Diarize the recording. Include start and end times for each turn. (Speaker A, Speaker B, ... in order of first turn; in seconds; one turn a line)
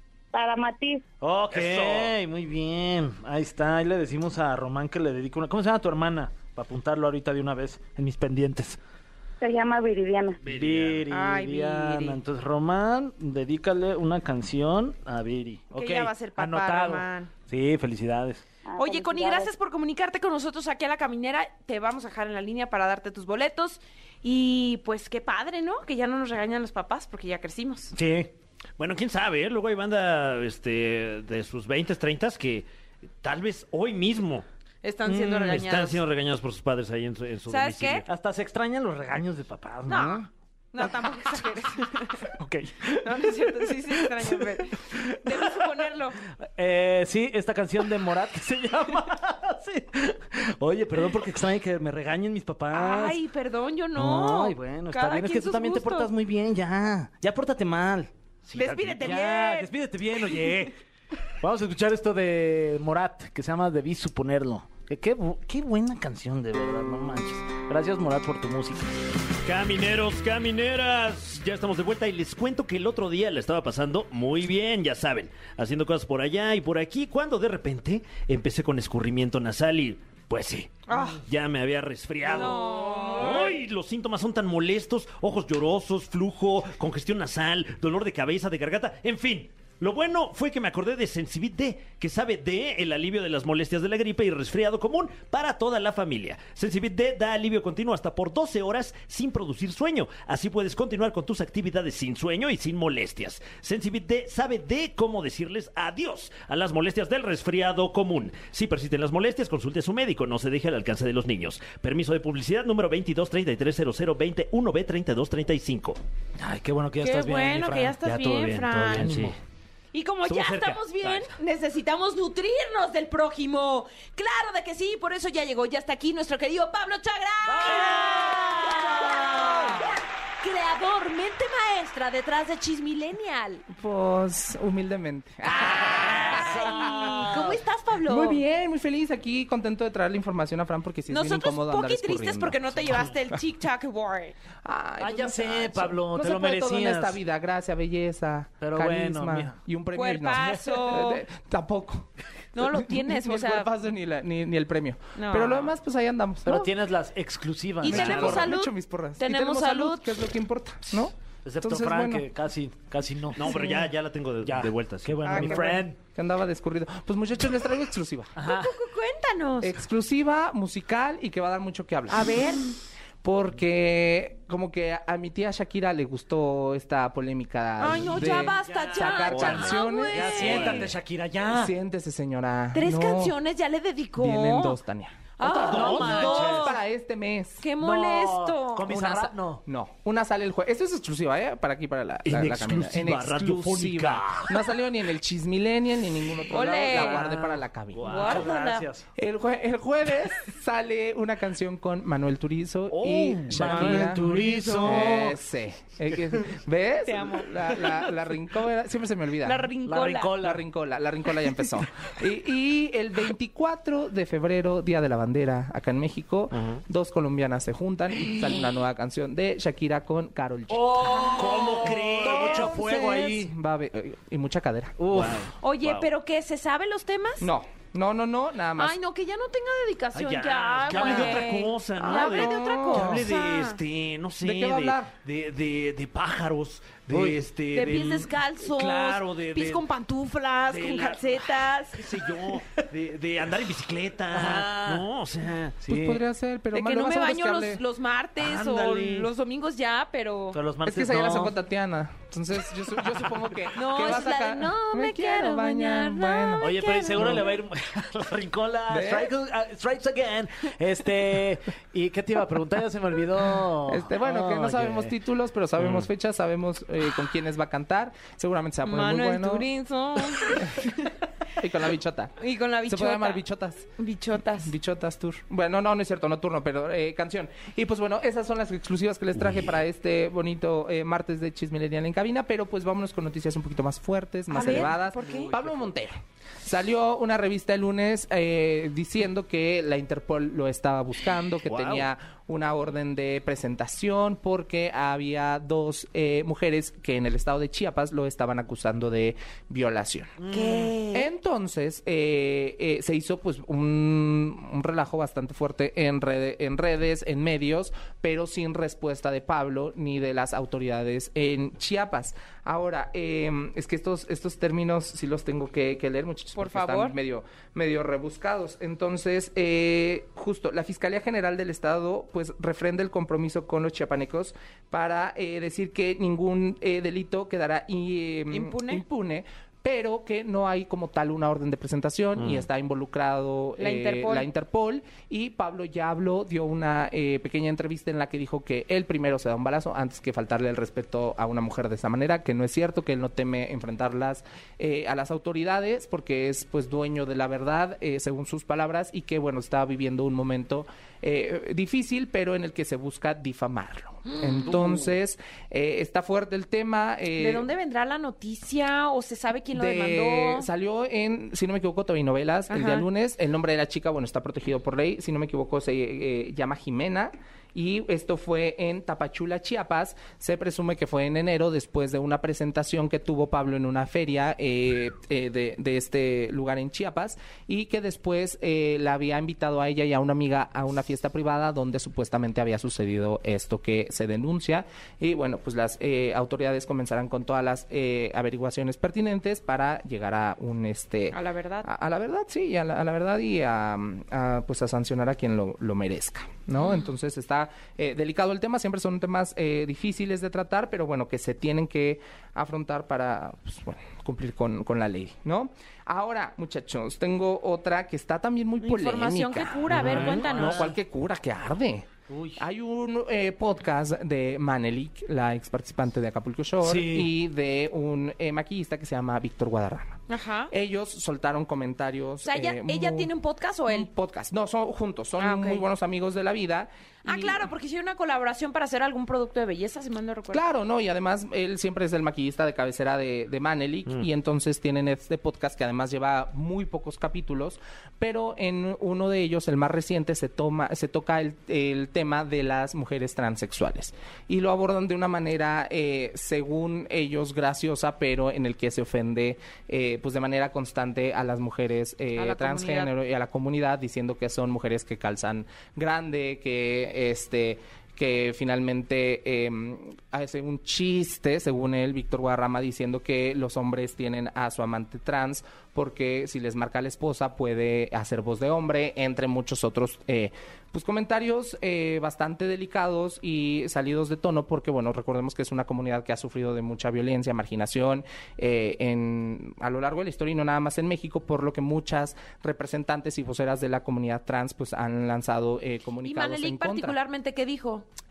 Speaker A: 0.3-1.0
Speaker B: 1.2-8.8
Speaker C: 1.5-2.1
Speaker A: 9.4-10.4
Speaker C: 10.4-11.0
Speaker B: 10.5-18.4
Speaker D: 11.1-12.2
Speaker D: 15.7-17.3
Speaker A: 18.7-19.5
Speaker D: 18.8-27.9
Speaker B: 27.9-28.3
Speaker C: 28.8-32.7
Speaker C: 33.2-34.5
Speaker D: 34.8-36.0
Speaker C: 35.0-38.1
Speaker D: 37.5-38.0
Speaker B: 38.1-40.3
Speaker D: 39.9-42.3
Speaker B: 42.3-45.5
Speaker D: 43.0-46.2
Speaker B: 46.4-53.2
Speaker D: 52.7-56.1
Speaker B: 54.0-60.8
Speaker C: 58.5-59.0
Speaker D: 58.5-60.6
Speaker B: 61.4-68.9
Speaker C: 69.4-116.0
Speaker D: 80.9-81.2
Speaker D: 82.2-83.6
Speaker B: 116.4-119.4
Speaker D: 117.0-119.1
Speaker C: 118.1-119.4
Speaker D: 119.9-133.7
Speaker C: 120.2-121.3
Speaker B: 127.5-129.8
Speaker E: 133.7-137.2
Speaker D: 135.4-138.4
Speaker B: 135.8-137.6
Speaker E: 138.1-143.4
Speaker D: 141.1-144.4
Speaker E: 144.6-156.7
Speaker B: 145.0-147.2
Speaker B: 148.6-149.6
Speaker D: 149.9-151.2
Speaker D: 152.5-153.7
Speaker D: 155.2-155.7
Speaker B: 156.4-158.5
Speaker D: 157.8-160.2
Speaker E: 157.9-162.3
Speaker B: 161.4-163.7
Speaker C: 163.3-165.4
Speaker E: 163.5-163.9
Speaker B: 164.4-166.0
Speaker D: 165.2-165.8
Speaker E: 165.4-168.3
Speaker B: 168.4-168.7
Speaker D: 168.4-169.8
Speaker E: 169.6-172.4
Speaker D: 172.1-172.7
Speaker E: 173.2-180.9
Speaker D: 177.8-180.8
Speaker B: 178.0-181.7
Speaker C: 179.2-179.8
Speaker C: 180.4-180.9
Speaker E: 181.5-183.3
Speaker D: 182.7-184.8
Speaker E: 184.2-187.7
Speaker D: 185.4-186.8
Speaker C: 185.4-186.6
Speaker B: 185.6-186.8
Speaker D: 187.6-189.0
Speaker B: 187.8-189.6
Speaker E: 188.9-198.1
Speaker C: 192.2-194.7
Speaker D: 196.5-197.3
Speaker B: 196.8-199.1
Speaker C: 197.9-198.5
Speaker D: 198.0-198.9
Speaker E: 199.2-204.3
Speaker C: 202.9-204.6
Speaker B: 203.5-205.4
Speaker D: 203.7-205.1
Speaker E: 204.8-209.7
Speaker D: 207.1-208.1
Speaker D: 209.4-210.4
Speaker B: 209.9-210.6
Speaker E: 210.4-221.2
Speaker C: 216.5-216.8
Speaker B: 220.7-223.5
Speaker D: 221.0-222.6
Speaker C: 221.2-222.8
Speaker E: 222.2-225.0
Speaker B: 225.0-225.5
Speaker C: 225.1-226.1
Speaker D: 225.6-227.5
Speaker E: 227.4-229.0
Speaker D: 228.8-233.8
Speaker C: 230.1-239.8
Speaker B: 230.9-231.5
Speaker E: 232.0-233.2
Speaker E: 234.4-235.1
Speaker B: 237.1-237.4
Speaker D: 237.7-242.1
Speaker C: 240.7-245.8
Speaker B: 242.5-242.8
Speaker B: 244.3-245.1
Speaker B: 245.8-246.2
Speaker E: 245.9-247.8
Speaker D: 246.7-250.6
Speaker C: 248.5-249.0
Speaker B: 248.6-249.3
Speaker B: 250.5-251.6
Speaker E: 250.8-257.4
Speaker D: 253.7-257.5
Speaker B: 256.6-265.1
Speaker E: 258.9-259.3
Speaker E: 263.9-269.7
Speaker C: 265.8-266.1
Speaker D: 268.8-271.1
Speaker E: 270.6-270.8
Speaker E: 271.6-272.4
Speaker D: 272.4-273.4
Speaker E: 272.9-273.9
Speaker D: 274.0-274.7
Speaker E: 274.6-300.4
Speaker D: 284.5-285.6
Speaker C: 291.6-292.1
Speaker B: 300.4-300.9
Speaker D: 300.5-301.3
Speaker E: 301.1-357.7
Speaker D: 316.6-317.2
Speaker D: 328.5-329.0
Speaker C: 332.4-332.7
Speaker D: 333.8-334.5
Speaker D: 354.3-355.0
Speaker D: 357.4-360.7
Speaker E: 359.7-420.2
Speaker D: 362.7-363.1
Speaker D: 391.3-391.9
Speaker D: 396.8-397.1
Speaker D: 408.8-410.9
Speaker C: 409.9-410.5
Speaker B: 409.9-410.9
Speaker B: 412.3-412.6
Speaker B: 416.8-417.3
Speaker D: 420.3-420.7
Speaker E: 420.7-423.3
Speaker D: 422.4-424.1
Speaker E: 423.9-427.6
Speaker D: 425.4-425.9
Speaker D: 427.2-430.6
Speaker E: 430.5-487.2
Speaker D: 452.4-453.1
Speaker D: 486.2-488.1